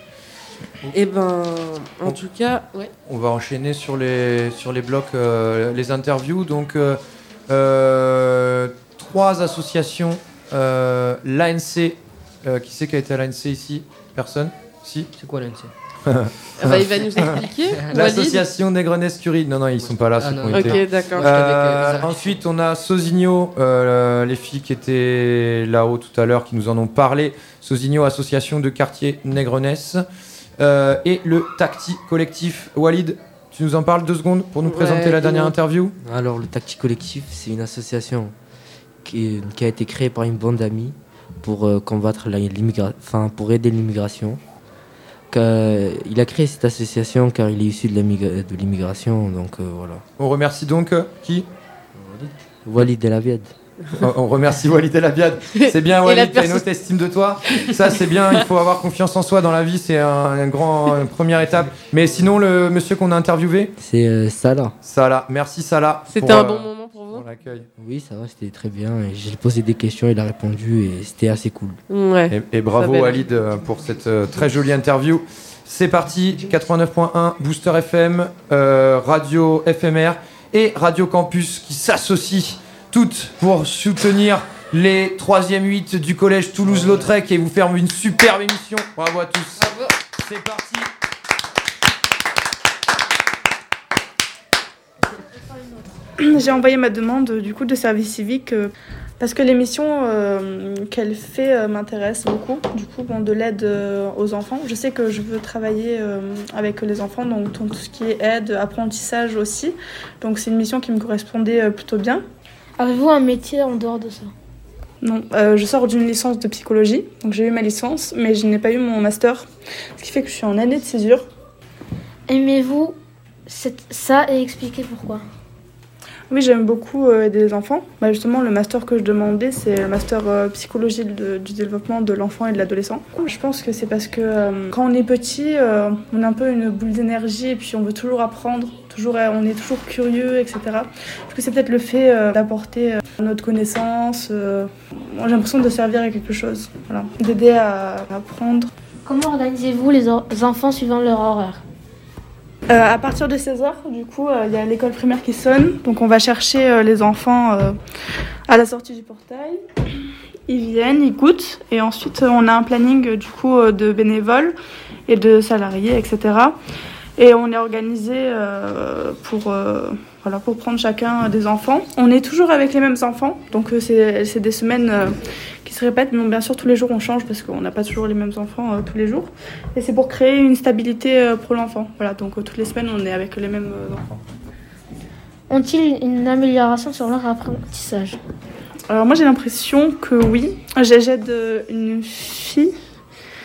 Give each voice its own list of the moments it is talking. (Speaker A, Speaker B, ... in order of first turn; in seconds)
Speaker A: 0.9-2.9, 16.6-18.4, 20.5-21.3, 34.6-35.5, 55.5-56.7, 66.1-67.3, 71.9-73.2
Speaker B: 3.1-15.1, 16.1-17.3, 17.9-30.0, 30.6-36.0, 50.2-51.5, 54.0-63.7, 64.8-67.7, 72.3-90.9
Speaker C: 15.2-15.7, 19.9-22.3, 36.0-38.3, 39.0-44.4, 45.3-50.0, 52.0-53.5, 63.8-64.8, 67.8-71.8
Speaker D: 96.2-112.2, 115.0-121.3, 126.3-148.7, 152.7-157.8, 158.5-159.6, 160.5-164.6, 165.1-166.6, 167.2-184.2, 188.9-192.7
Speaker E: 112.8-114.3, 122.3-122.9, 123.5-125.2, 149.1-151.6, 185.5-188.2